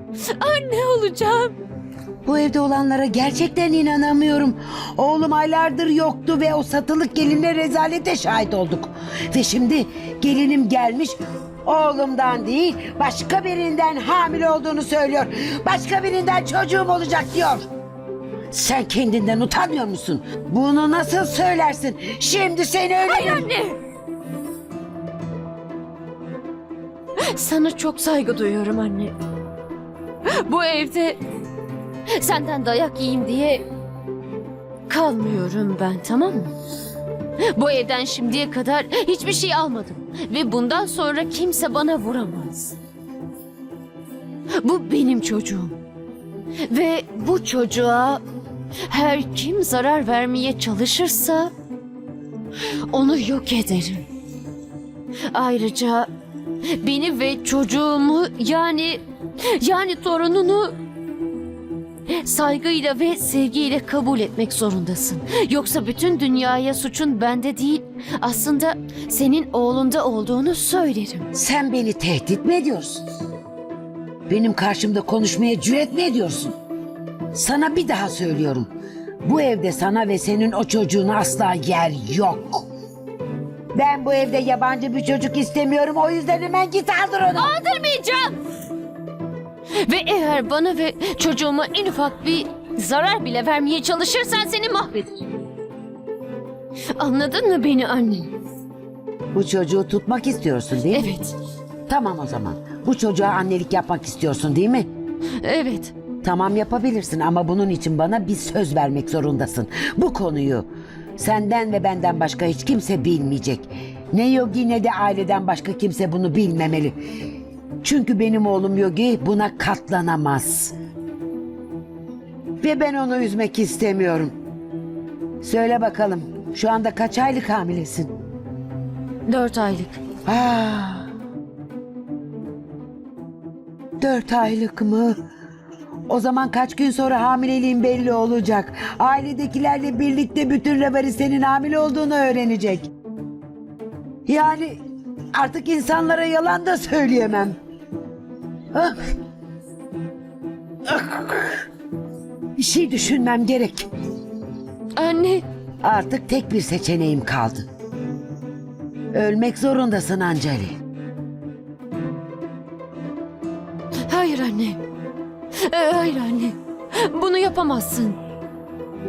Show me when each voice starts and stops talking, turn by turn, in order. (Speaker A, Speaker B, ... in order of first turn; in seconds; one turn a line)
Speaker A: 0.4-1.5
Speaker B: 2.2-17.6
Speaker B: 18.5-23.5
Speaker A: 23.0-23.8
Speaker A: 27.3-29.1
Speaker A: 30.3-31.2
Speaker A: 32.2-33.6
Speaker A: 34.9-36.5
Speaker A: 37.5-42.8
Speaker A: 44.6-45.8
Speaker A: 46.7-48.2
Speaker A: 48.9-51.5
Speaker A: 52.9-54.1
Speaker A: 55.3-56.1
Speaker A: 56.8-59.0
Speaker A: 59.6-60.8
Speaker A: 62.1-71.3
Speaker B: 71.3-73.0
Speaker B: 74.3-76.5
Speaker B: 77.3-78.7
Speaker B: 79.2-82.7
Speaker B: 83.7-87.5
Speaker A: 87.3-88.3
Speaker A: 89.8-95.2
Speaker A: 97.0-98.3
Speaker B: 99.3-101.1
Speaker A: 100.9-101.3
Speaker B: 101.9-104.9
Speaker A: 105.4-105.9
Speaker B: 106.2-117.0
Speaker B: 117.8-120.7
Speaker B: 122.6-124.3
Speaker B: 125.4-128.1
Speaker A: 129.3-130.0
Speaker B: 130.2-131.1
Speaker B: 134.0-135.2
Speaker B: 136.1-142.9
Speaker B: 144.3-144.8
Speaker B: 145.3-147.6
Speaker B: 150.9-151.6
Speaker B: 152.6-153.8
Speaker A: 155.0-155.4
Speaker B: 155.8-157.6
Speaker B: 159.1-160.7
Speaker A: 164.1-164.8
Speaker A: 165.6-168.2